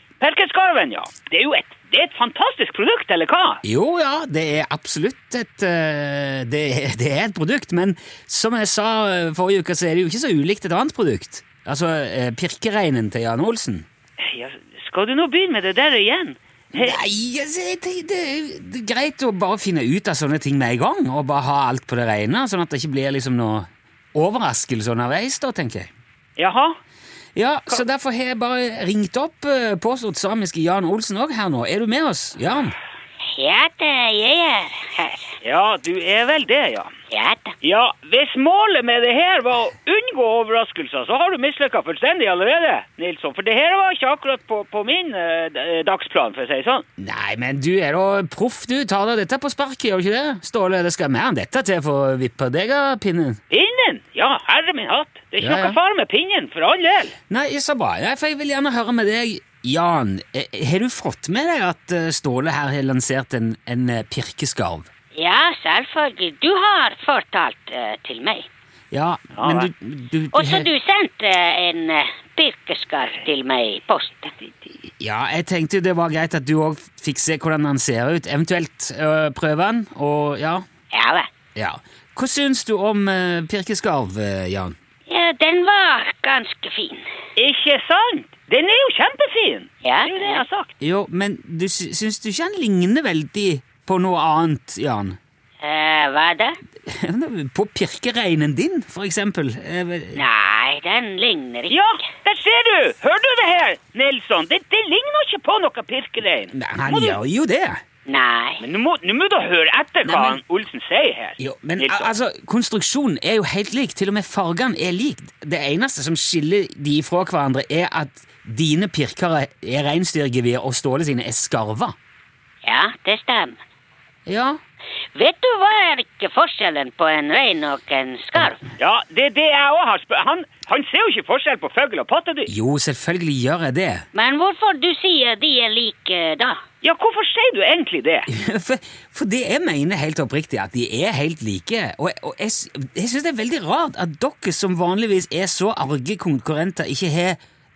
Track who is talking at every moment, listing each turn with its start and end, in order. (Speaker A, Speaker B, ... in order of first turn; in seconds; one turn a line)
Speaker A: 0.2-3.6
Speaker B: 3.6-13.9
Speaker A: 14.2-17.0
Speaker B: 16.7-25.9
Speaker A: 26.4-26.8
Speaker B: 27.4-32.8
Speaker C: 33.4-35.4
Speaker A: 35.4-36.9
Speaker C: 37.1-37.5
Speaker A: 37.6-46.8
Speaker B: 47.0-53.4
Speaker A: 53.5-57.1
Speaker B: 55.4-55.8
Speaker B: 57.3-64.9
Speaker C: 65.2-68.5
Speaker B: 68.9-70.7
Speaker A: 69.3-69.7
Speaker C: 70.3-74.3
Speaker B: 75.0-80.7
Speaker C: 80.9-81.3
Speaker B: 81.5-84.8
Speaker C: 85.1-87.0
Speaker A: 87.4-90.7
Speaker C: 89.8-90.5
Speaker B: 90.8-95.2
Speaker C: 95.6-96.6
Speaker B: 96.9-100.2
Speaker C: 100.2-101.8
Speaker A: 101.7-107.2
Speaker B: 106.5-107.8
Speaker C: 108.1-108.6
Speaker A: 108.6-112.1
Speaker B: 110.0-110.4
Speaker B: 111.4-122.0
Speaker C: 122.6-123.6
Speaker B: 124.3-124.6
Speaker C: 125.2-128.6
Speaker A: 128.8-132.5
Speaker B: 132.5-134.1
Speaker C: 134.1-136.6
Speaker A: 136.8-138.3
Speaker B: 138.3-147.4